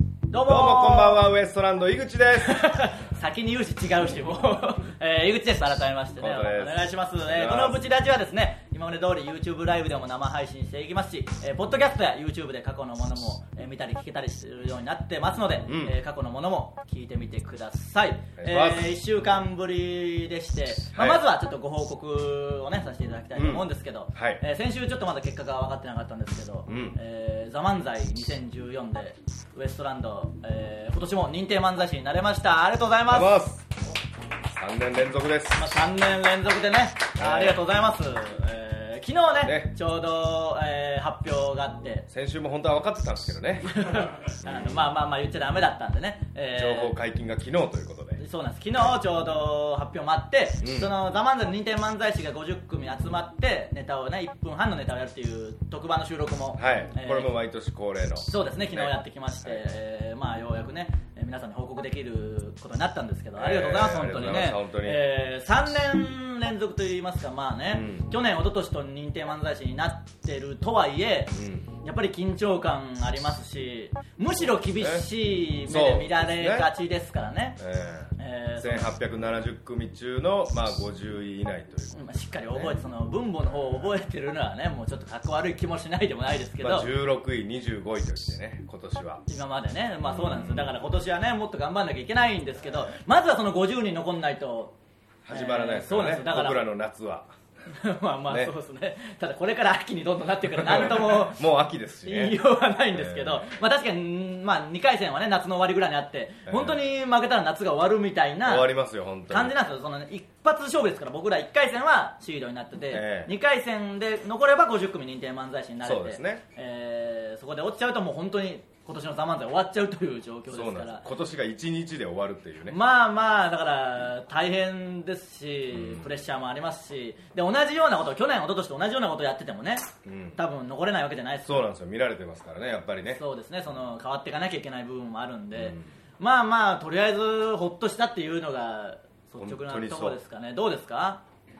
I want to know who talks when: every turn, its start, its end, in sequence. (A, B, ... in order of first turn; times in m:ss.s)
0:00.3-0:01.2 A
0:00.4-0:02.7 B
0:02.4-0:33.3 A
0:06.2-0:07.8 B
0:15.6-0:16.0 B
0:18.4-0:18.9 B
0:20.9-0:21.2 B
0:23.4-0:24.4 B
0:26.7-0:27.0 B
0:33.1-0:33.7 B
0:34.6-0:35.6 B
0:35.5-0:42.0 A
0:37.2-0:37.6 B
0:39.4-0:39.7 B
0:42.1-0:43.7 B
0:43.7-0:47.0 A
0:44.4-0:44.9 B
0:46.6-0:48.2 B
0:48.2-0:57.3 A
0:50.6-0:50.9 B
0:56.6-0:59.6 B
0:58.3-1:17.6 A
1:03.4-1:05.0 B
1:07.7-1:08.1 B
1:11.3-1:11.7 B
1:14.8-1:15.1 B
1:15.6-1:16.7 B
1:17.6-1:22.8 B
1:18.2-1:18.9 A
1:21.9-1:26.9 A
1:26.6-1:29.2 B
1:29.3-1:34.7 A
1:30.0-1:30.7 B
1:35.2-1:37.3 B
1:35.3-1:36.6 A
1:37.7-1:41.4 A
1:38.3-1:38.5 B
1:40.5-1:42.4 B
1:42.0-1:48.7 A
1:42.9-1:43.5 B
1:46.5-1:46.8 B
1:48.4-1:49.5 B
1:49.3-2:01.0 A
1:52.9-1:53.3 B
1:55.8-1:56.4 B
2:00.5-2:02.8 B
2:02.7-2:11.7 A
2:05.7-2:06.1 B
2:10.0-2:10.4 B
2:11.4-2:13.2 B
2:13.2-2:21.2 A
2:15.5-2:15.9 B
2:19.4-2:20.2 B